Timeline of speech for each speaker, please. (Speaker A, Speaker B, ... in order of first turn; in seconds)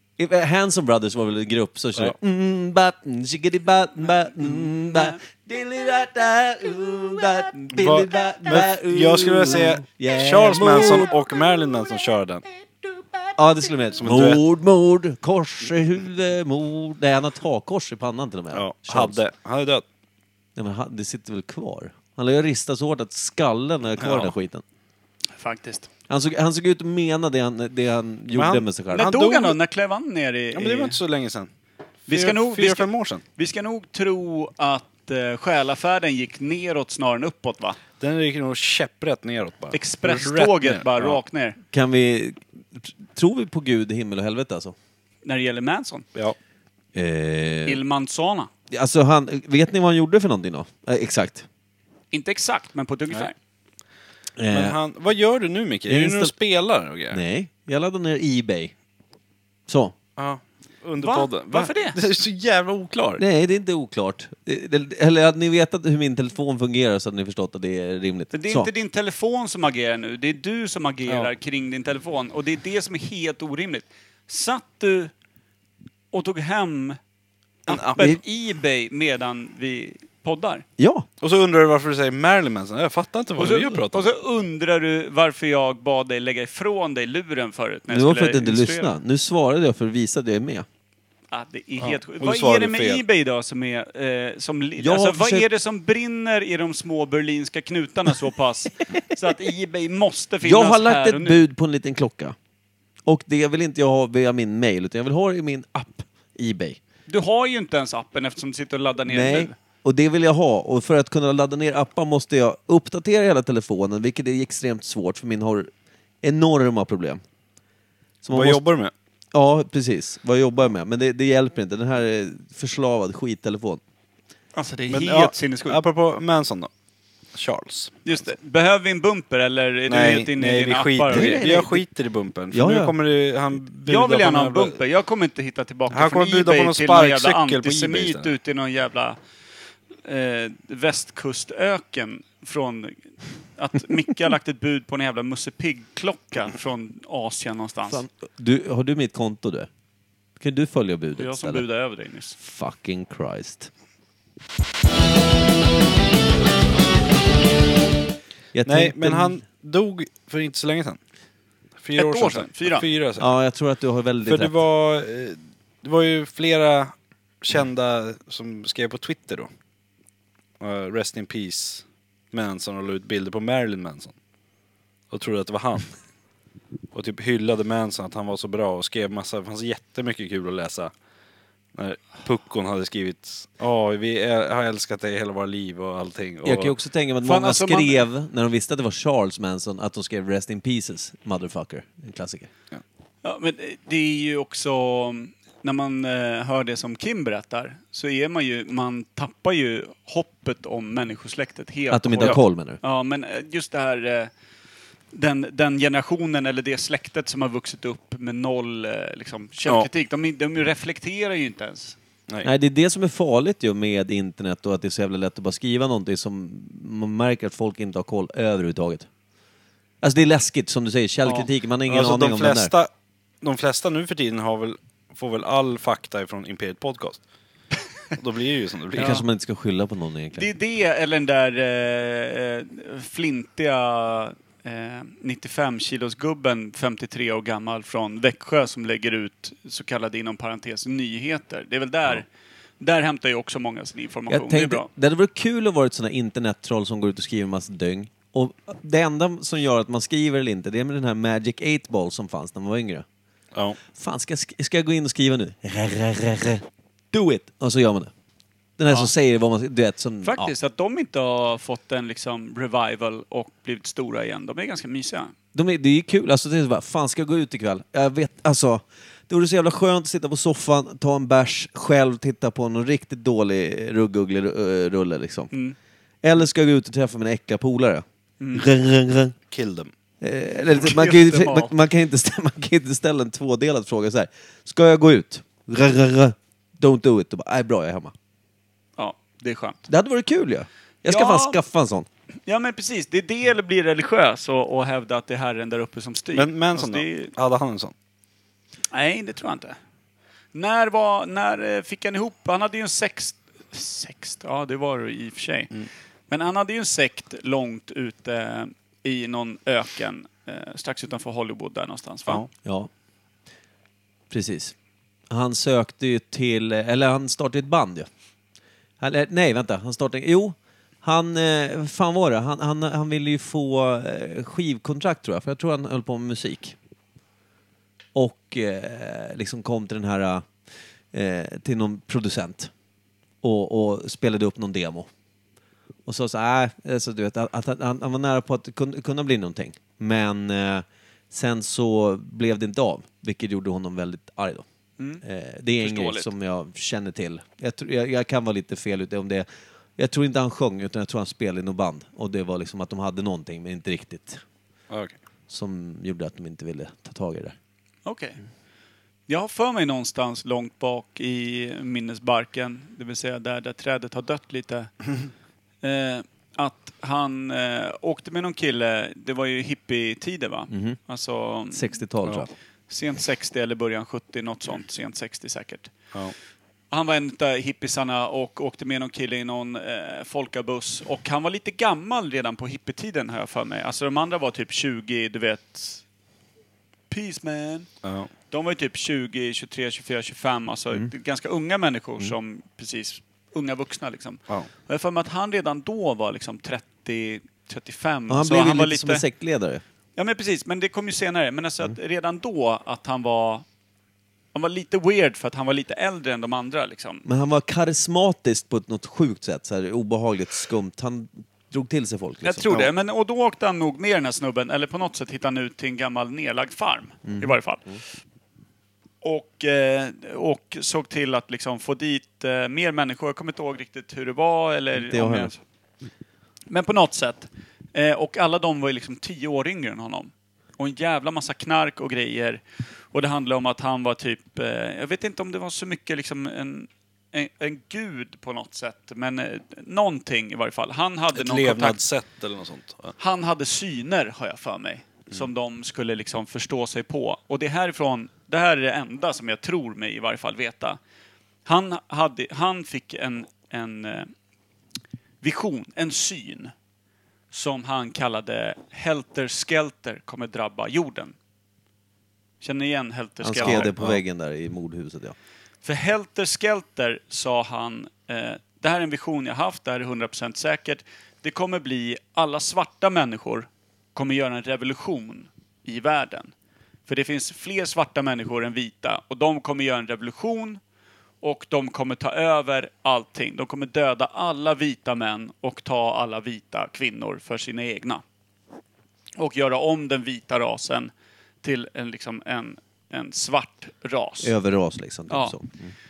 Speaker A: 0.2-11.1, 13.3-19.2, 20.6-24.6, 26.1-29.1, 41.7-44.8, 47.0-47.8, 48.7-51.5, 54.4-54.8, 55.9-56.3, 57.1-58.7, 59.7-59.9, 63.2-68.7, 80.8-81.1, 87.9-90.7, 94.8-95.5, 100.4-102.3, 103.0-106.8, 109.1-115.7, 116.2-117.2, 118.2-118.6, 119.3-123.8, 131.1-131.8, 132.5-133.0, 147.9-149.7, 150.4-151.6, 152.4-153.7, 158.5-159.4, 163.2-164.5, 186.4-192.5, 201.9-202.8, 212.4-219.1, 220.0-222.7, 228.9-230.5, 244.3-253.1, 253.9-258.1, 258.8-260.5, 265.5-275.5, 276.2-279.4, 280.2-288.1, 289.9-292.1, 312.6-312.9, 314.3-314.7, 315.3-318.1, 319.0-326.8, 328.1-330.5, 331.1-332.7, 333.4-335.1, 336.1-344.6, 345.2-354.4, 355.5-357.6, 370.7-371.0, 371.7-372.5, 398.3-399.8, 407.2-412.8, 417.2-418.0, 424.9-425.5, 463.4-465.4, 494.4-495.9
Speaker B: 7.7-12.4, 14.0-14.4, 18.5-19.8, 28.3-29.6, 30.6-31.5, 32.1-33.2, 38.0-41.2, 54.5-57.2, 60.2-63.2, 77.7-78.1, 81.2-84.1, 91.8-93.0, 118.3-118.9, 124.9-126.7, 127.3-128.1, 129.9-134.8, 135.9-138.3, 158.7-161.0, 161.8-163.3, 164.2-169.5, 170.6-174.2, 175.1-175.9, 176.9-180.9, 181.8-186.8, 221.9-222.9, 223.4-227.2, 228.2-229.2, 279.5-279.9, 296.4-297.9, 354.9-355.1, 388.0-388.3, 441.4-443.1, 463.6-464.2
Speaker C: 25.4-25.9, 28.9-31.0, 32.1-37.8, 39.7-41.6, 45.2-46.1, 47.7-48.5, 52.1-53.4, 61.0-62.0, 68.3-75.1, 76.1-77.0, 77.7-80.7, 83.4-89.0, 91.3-101.4, 107.1-109.5, 124.5-125.8, 128.1-131.6, 133.9-139.2, 140.1-148.0, 151.2-152.4, 162.0-162.9, 187.2-188.1, 193.2-204.3, 205.1-212.0, 229.0-229.2, 230.3-242.3, 242.8-244.9, 260.2-265.3, 278.4-278.7, 280.8-281.7, 289.0-289.8, 291.1-291.6, 292.5-297.3, 298.9-299.8, 300.5-305.7, 306.3-312.4, 345.8-346.3, 358.1-358.4, 359.3-364.9, 365.8-372.0, 372.9-375.9, 376.9-386.0, 387.1-387.9, 388.5-399.2, 400.2-403.6, 404.5-407.2, 412.4-417.9, 419.2-425.6, 426.7-442.0, 443.2-451.0, 451.7-454.3, 455.4-456.7, 457.5-461.4, 462.6-463.9, 465.8-476.5, 477.1-480.8, 481.4-488.2, 489.4-491.1, 491.6-494.5, 495.3-495.6